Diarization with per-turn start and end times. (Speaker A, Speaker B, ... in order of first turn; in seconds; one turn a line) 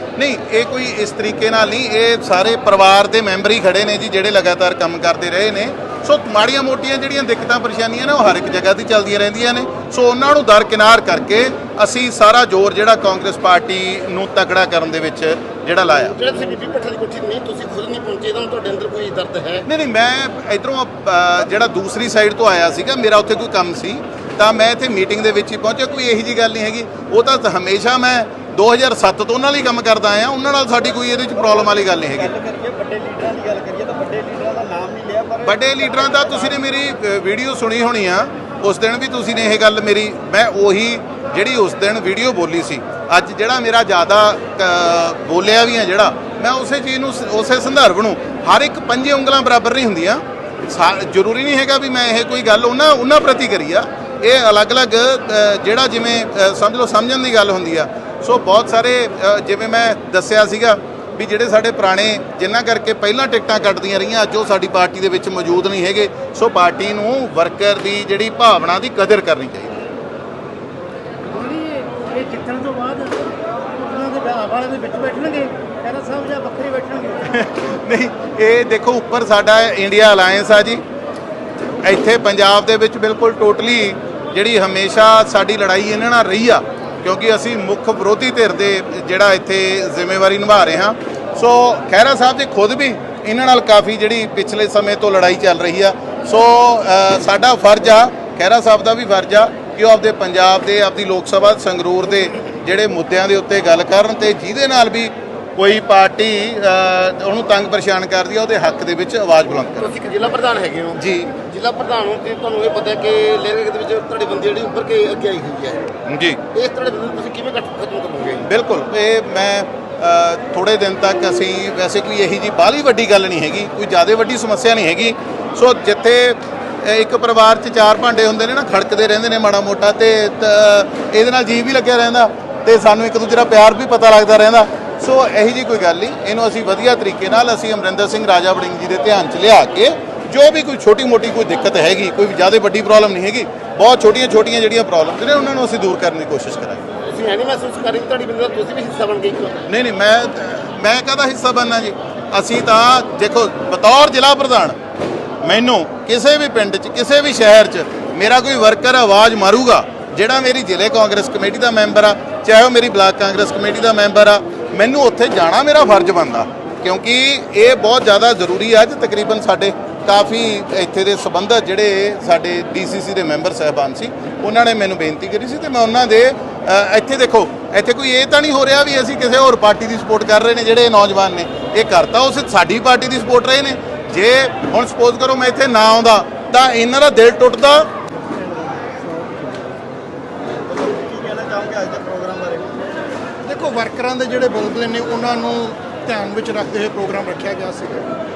Speaker A: 0.2-16.2
Speaker B: 16.2-19.6
Speaker A: 19.7-32.3
Speaker C: 31.4-36.6
Speaker A: 35.4-69.7
Speaker D: 71.3-77.2
Speaker A: 77.2-80.8
Speaker A: 81.8-110.0
Speaker B: 109.8-115.9
Speaker A: 111.0-111.4
Speaker A: 116.1-116.4
Speaker B: 116.5-118.5
Speaker A: 118.5-146.9
Speaker B: 146.9-149.7
Speaker A: 149.7-154.8
Speaker A: 155.4-187.9
Speaker C: 188.4-189.5
Speaker C: 190.7-192.7
Speaker E: 193.4-198.1